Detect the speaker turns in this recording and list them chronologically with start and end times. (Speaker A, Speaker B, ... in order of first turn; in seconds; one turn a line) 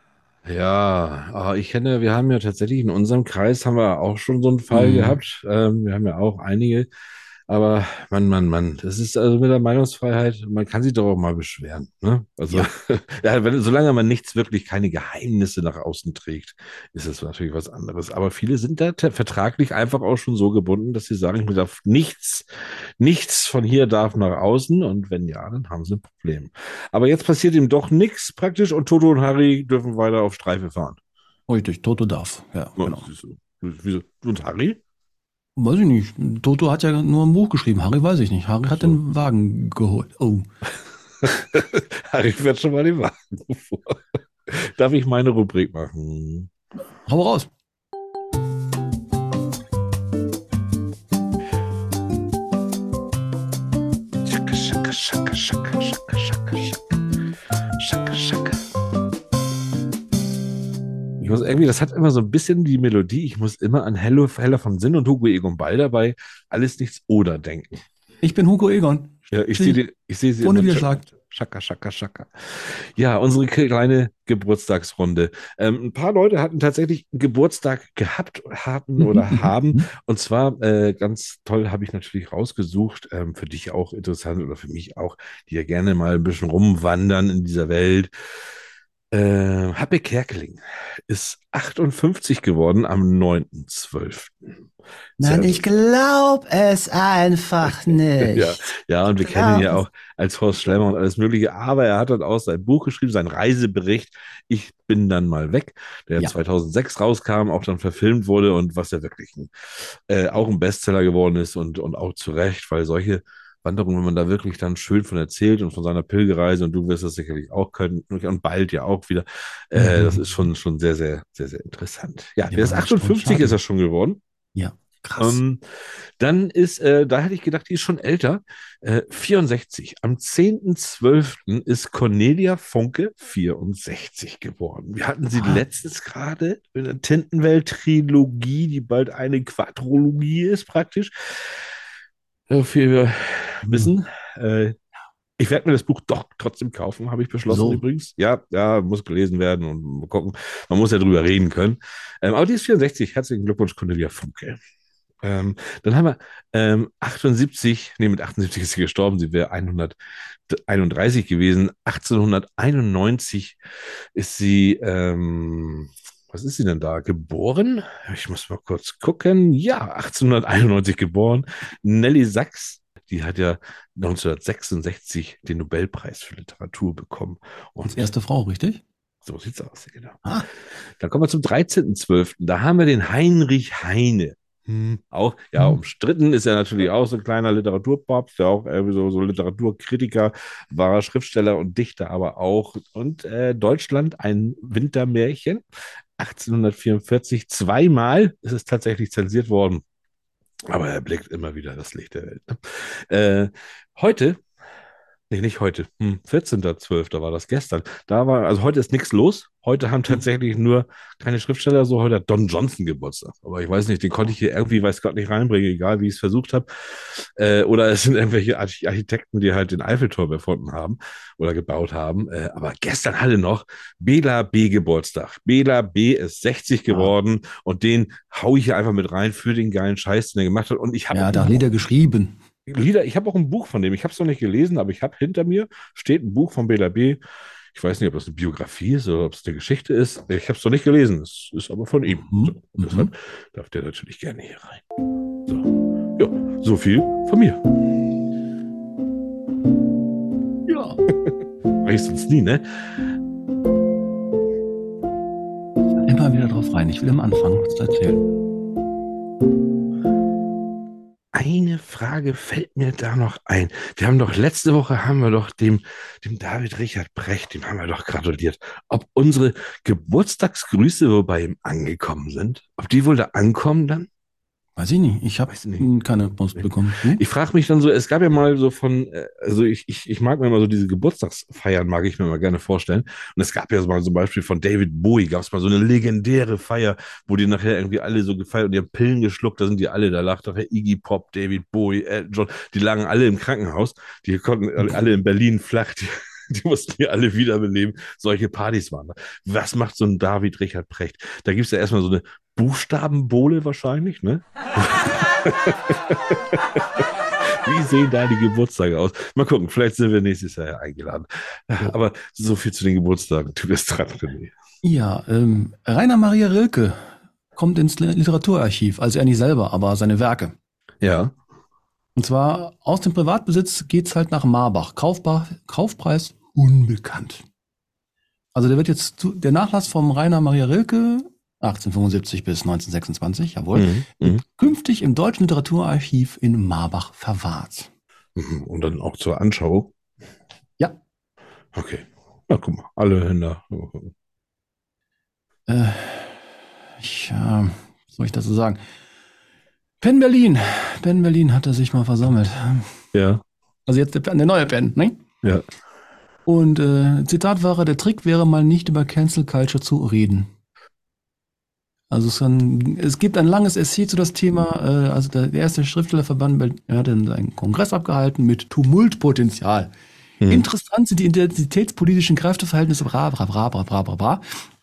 Speaker A: 0.5-6.9
Speaker B: 4.7-5.2
Speaker A: 7.5-22.5
Speaker A: 23.0-31.0
Speaker B: 31.5-33.1
Speaker A: 32.8-34.8
Speaker B: 35.6-40.5
Speaker A: 41.2-46.5
Speaker B: 47.1-47.5
Speaker A: 54.2-56.8
Speaker A: 57.8-58.6
Speaker A: 61.2-67.8
Speaker B: 68.2-69.8
Speaker A: 69.3-88.1
Speaker B: 70.4-71.0
Speaker B: 79.0-79.9
Speaker A: 89.1-94.5
Speaker B: 95.2-95.5
Speaker A: 95.2-95.6
Speaker C: 95.2-98.5
Speaker B: 97.4-98.4
Speaker A: 98.2-124.2
Speaker C: 99.3-99.7
Speaker B: 119.8-120.2
Speaker B: 122.5-123.6
Speaker B: 124.6-125.4
Speaker A: 125.2-125.6
Speaker A: 126.2-141.6
Speaker B: 135.3-135.6
Speaker A: 142.5-144.8
Speaker A: 145.4-154.6
Speaker B: 147.5-147.8
Speaker A: 155.2-160.0
Speaker A: 160.5-163.6
Speaker A: 164.2-178.1
Speaker B: 177.9-178.8
Speaker A: 179.2-180.2
Speaker A: 181.0-195.6
Speaker A: 196.2-199.8
Speaker A: 200.7-204.4
Speaker A: 205.3-231.7
Speaker B: 231.1-232.4
Speaker A: 232.7-237.2
Speaker A: 237.7-244.8
Speaker B: 242.2-243.1
Speaker A: 245.5-247.6
Speaker B: 250.7-251.0
Speaker A: 251.8-252.6
Speaker B: 256.0-258.2
Speaker A: 261.3-274.1
Speaker B: 274.8-277.2
Speaker A: 275.5-275.9
Speaker A: 276.6-314.5
Speaker B: 314.8-320.5
Speaker A: 321.0-321.4
Speaker B: 322.2-327.4
Speaker B: 328.6-337.9
Speaker A: 333.8-334.4
Speaker A: 338.4-339.9
Speaker A: 341.8-344.1
Speaker B: 345.7-346.5
Speaker B: 347.0-348.8
Speaker B: 350.0-352.9
Speaker A: 353.1-353.4
Speaker B: 353.9-355.2
Speaker B: 356.5-360.5
Speaker B: 362.1-369.9
Speaker A: 370.4-370.7
Speaker B: 370.5-374.4